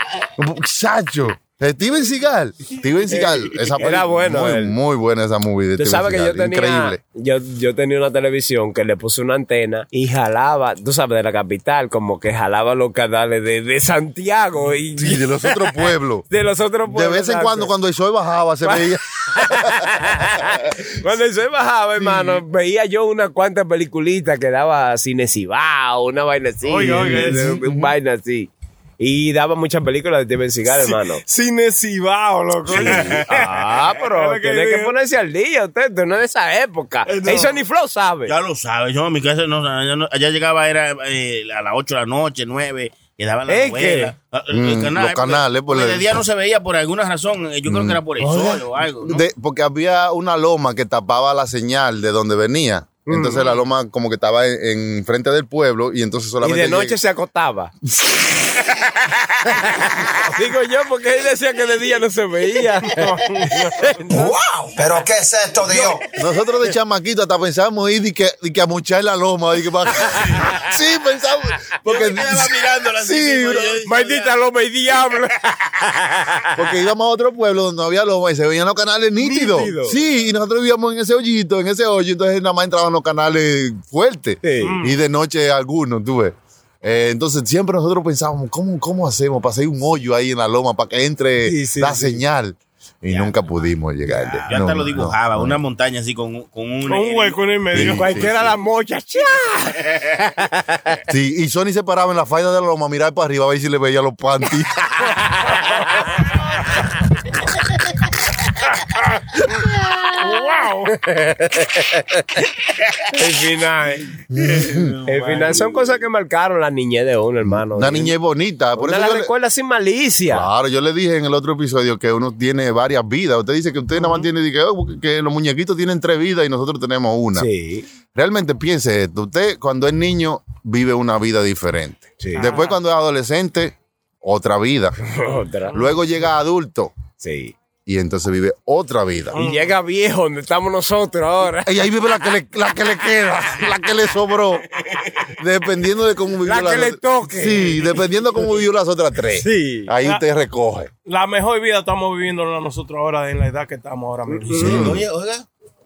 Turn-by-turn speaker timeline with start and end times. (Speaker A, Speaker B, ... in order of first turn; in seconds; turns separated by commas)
Speaker A: 0.4-7.0, Speaker B: 3.1-4.8, Speaker B: 5.8-17.7, Speaker A: 15.0-16.2, Speaker A: 16.9-20.5, Speaker B: 18.6-31.2, Speaker A: 22.0-22.4, Speaker C: 26.7-27.6, Speaker A: 26.8-27.9, Speaker C: 30.8-33.4, Speaker B: 32.6-38.3, Speaker D: 32.7-33.8, Speaker C: 34.0-34.9, Speaker C: 37.0-37.5, Speaker D: 38.2-49.2, Speaker B: 43.5-44.1, Speaker A: 44.5-46.2, Speaker A: 47.7-48.0, Speaker B: 48.2-48.6, Speaker A: 49.0-57.0, Speaker B: 53.0-53.5, Speaker B: 56.4-57.7, Speaker B: 59.4-63.1, Speaker C: 62.9-64.0, Speaker B: 63.8-64.2, Speaker E: 64.1-66.1, Speaker A: 66.1-73.8, Speaker D: 70.1-70.5, Speaker D: 71.8-74.3, Speaker B: 73.8-76.7, Speaker A: 76.5-95.6, Speaker B: 79.2-80.0, Speaker B: 84.4-84.8, Speaker C: 84.6-85.0, Speaker B: 91.4-92.2, Speaker D: 93.1-93.3, Speaker D: 94.1-97.4, Speaker C: 96.8-98.1, Speaker A: 97.7-98.5, Speaker B: 97.8-101.0, Speaker A: 101.1-105.0, Speaker C: 110.2-110.9, Speaker B: 110.9-118.1, Speaker A: 114.3-115.0, Speaker A: 117.5-119.3, Speaker B: 118.7-120.5, Speaker A: 120.3-127.5, Speaker C: 124.0-124.2, Speaker B: 127.3-127.9, Speaker A: 128.1-135.0, Speaker B: 132.2-132.6, Speaker C: 132.4-132.8, Speaker B: 135.0-135.9, Speaker A: 135.7-137.0, Speaker B: 137.2-137.5, Speaker A: 137.8-139.4, Speaker C: 139.3-139.7, Speaker B: 139.3-141.7, Speaker A: 141.6-144.7, Speaker A: 145.3-150.9, Speaker B: 146.4-148.6, Speaker B: 149.3-149.9, Speaker C: 151.1-154.7, Speaker B: 154.3-155.0, Speaker D: 154.5-155.4, Speaker A: 154.6-155.0